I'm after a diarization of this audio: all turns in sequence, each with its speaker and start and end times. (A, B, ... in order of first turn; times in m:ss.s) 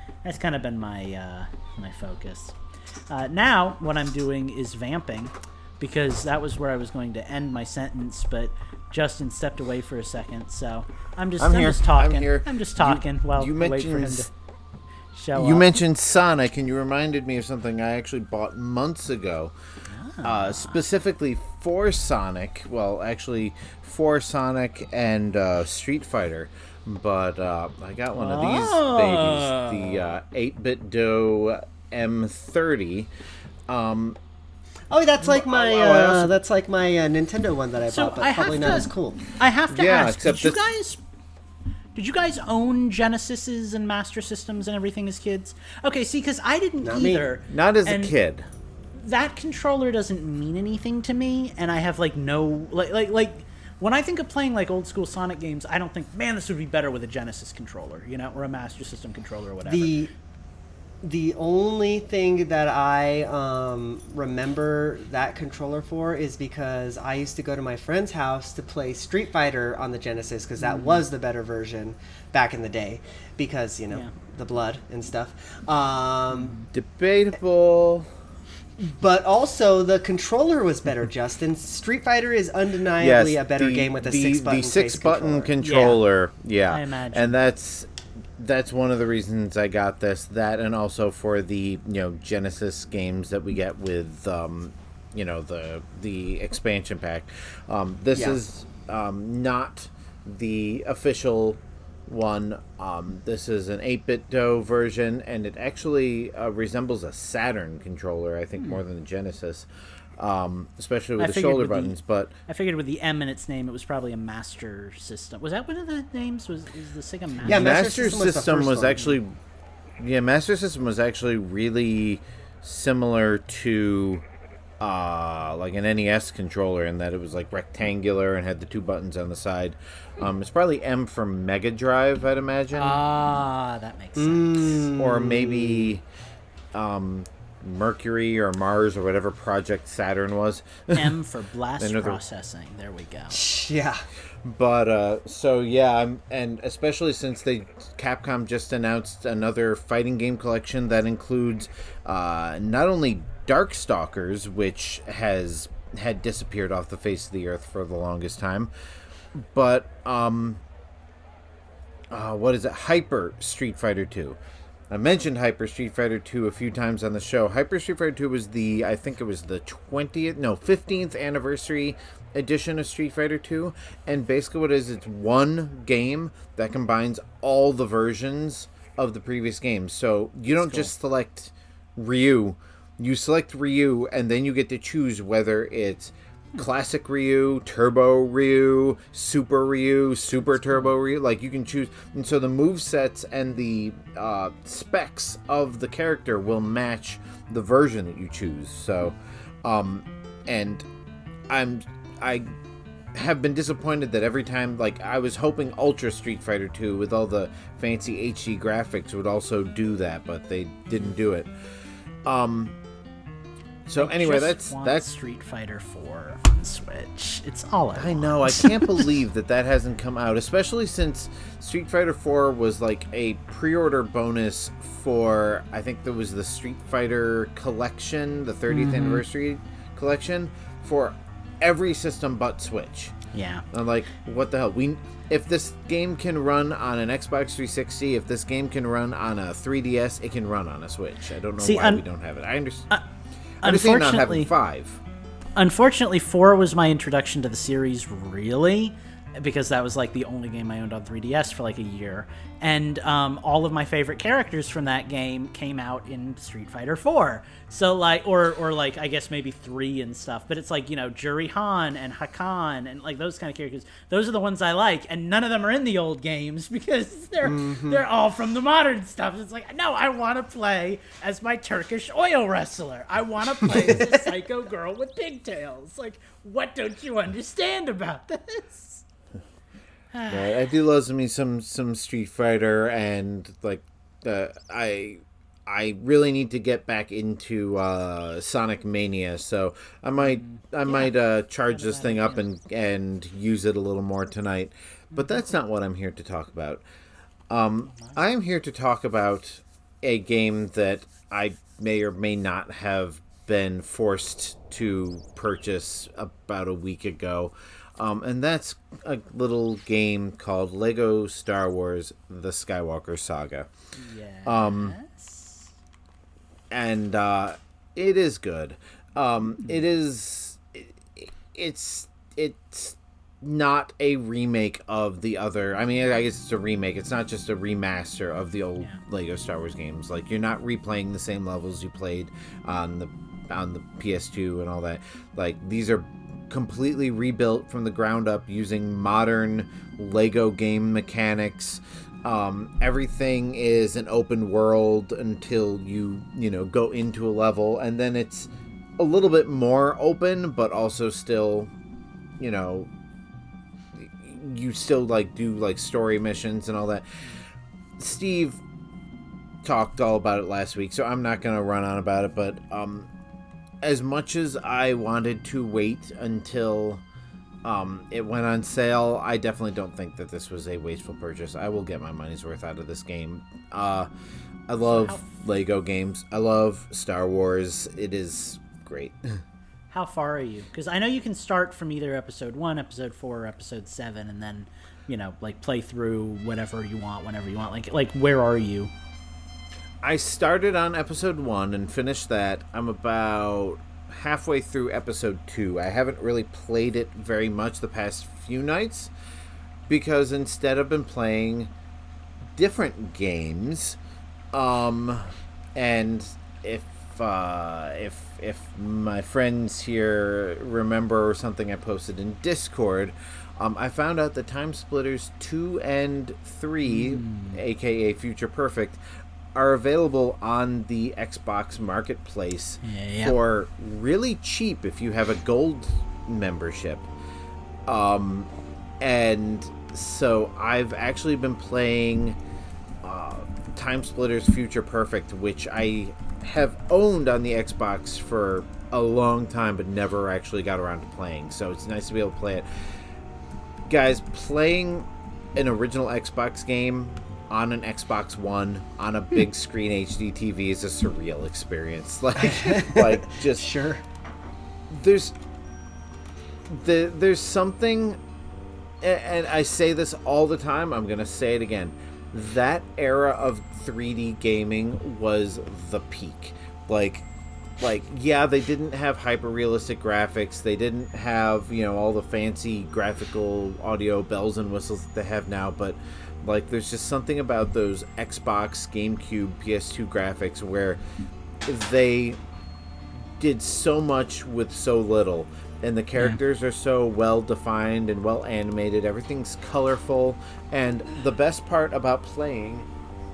0:00.2-0:02.6 A
0:03.1-0:14.3 A
0:11.4-0:14.3 B
0:15.1-0:15.7 A
0:15.4-0:19.6 B
0:19.9-0:20.8 A
0:20.2-0:33.1 B
0:28.1-0:30.1 A
0:33.7-0:34.2 B
0:34.9-0:39.2 C
0:35.2-0:36.3 B
0:37.9-0:41.0 A
0:39.7-0:40.6 B
0:42.0-0:48.1 A
0:46.8-0:47.3 C
0:47.5-0:48.5 B
0:49.0-1:00.0 A
0:59.6-1:00.1 C
1:01.0-1:16.5 C
1:10.6-1:11.0 A
1:16.3-1:16.7 A
1:16.7-1:18.1 B
1:18.8-1:25.5 C
1:23.0-1:52.4 B
1:25.6-1:26.0 A
1:26.7-1:27.3 A
1:38.1-1:38.4 C
1:51.2-1:52.0 A
1:52.5-1:57.8 A
1:57.4-1:59.1 C
1:57.4-1:59.3 B
2:00.0-2:04.2 B
2:04.8-2:13.0 B
2:12.7-2:14.9 A
2:14.2-2:15.9 C
2:15.0-2:16.0 B
2:16.7-2:21.2 B
2:21.0-2:23.5 A
2:21.8-2:22.2 B
2:23.3-2:24.0 C
2:24.4-2:38.7 B
2:39.4-2:40.6 B
2:42.1-2:44.4 B
2:44.9-3:20.9 B
3:00.6-3:00.9 A
3:21.5-3:22.5 B
3:23.1-3:31.5 B
3:32.2-3:32.8 B
3:33.9-3:35.1 B
3:34.0-3:39.1 A
3:38.0-3:53.1 B
3:48.7-3:49.2 A
3:53.3-3:53.7 A
3:53.7-4:02.9 B
4:01.6-4:02.0 A
4:03.6-4:05.0 B
4:03.6-4:04.5 A
4:05.6-4:39.0 A
4:27.4-4:28.0 C
4:40.1-4:40.5 A
4:40.3-4:56.8 B
4:50.2-4:52.4 A
4:57.5-5:13.7 B
5:14.0-5:15.7 A
5:14.4-5:15.0 B
5:16.7-5:51.7 B
5:52.4-5:52.9 B
5:54.0-5:57.1 B
5:58.0-5:58.6 B
5:59.6-6:03.1 B
6:03.8-6:07.0 B
6:07.6-6:14.1 B
6:14.7-6:19.4 B
6:14.8-6:15.4 A
6:19.9-6:28.9 A
6:30.0-6:39.1 B
6:39.9-6:41.7 B
6:42.6-6:44.0 B
6:44.5-6:59.0 B
6:56.8-6:57.6 A
6:59.5-7:07.1 B
7:02.8-7:03.4 A
7:07.9-7:08.5 B
7:09.0-7:12.4 B
7:13.0-7:22.6 B
7:23.9-7:33.7 B
7:32.4-7:34.0 C
7:34.9-7:35.3 B
7:36.7-7:38.2 B
7:39.0-7:47.3 B
7:47.8-8:01.0 B
8:01.6-8:02.4 B
8:03.4-8:12.9 B